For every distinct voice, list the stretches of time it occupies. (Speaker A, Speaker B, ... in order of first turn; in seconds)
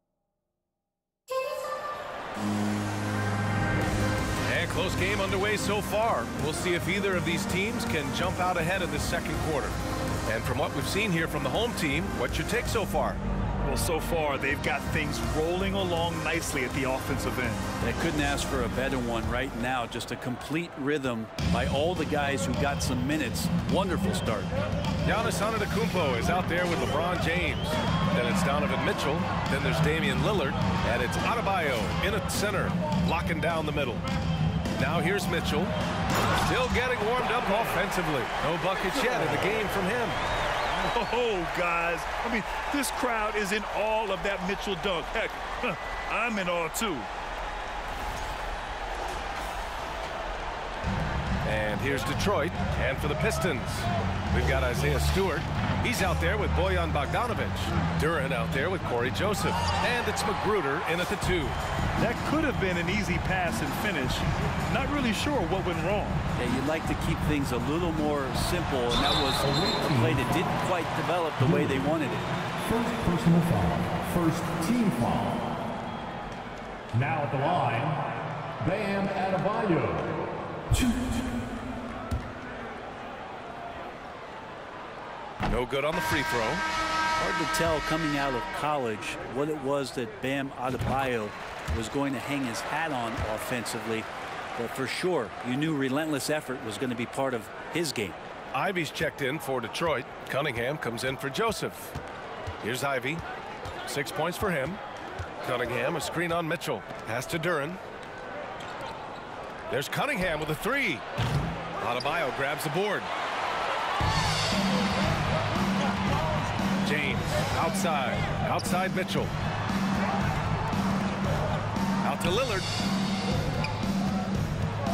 Speaker A: 4.5-13.2, 25.0-34.0, 34.8-35.7, 36.4-40.2, 51.4-61.6, 85.5-86.6, 98.5-101.9, 102.6-103.2, 103.8-104.8, 105.4-107.8, 109.7-111.0, 111.8-113.1, 116.8-119.3, 122.0-122.7
Speaker B: 13.6-17.7, 40.8-47.1, 62.0-66.2
Speaker C: 17.8-24.5, 66.4-72.3, 87.2-98.2
Speaker D: 69.4-70.5, 71.4-71.8, 72.6-75.5, 76.9-81.2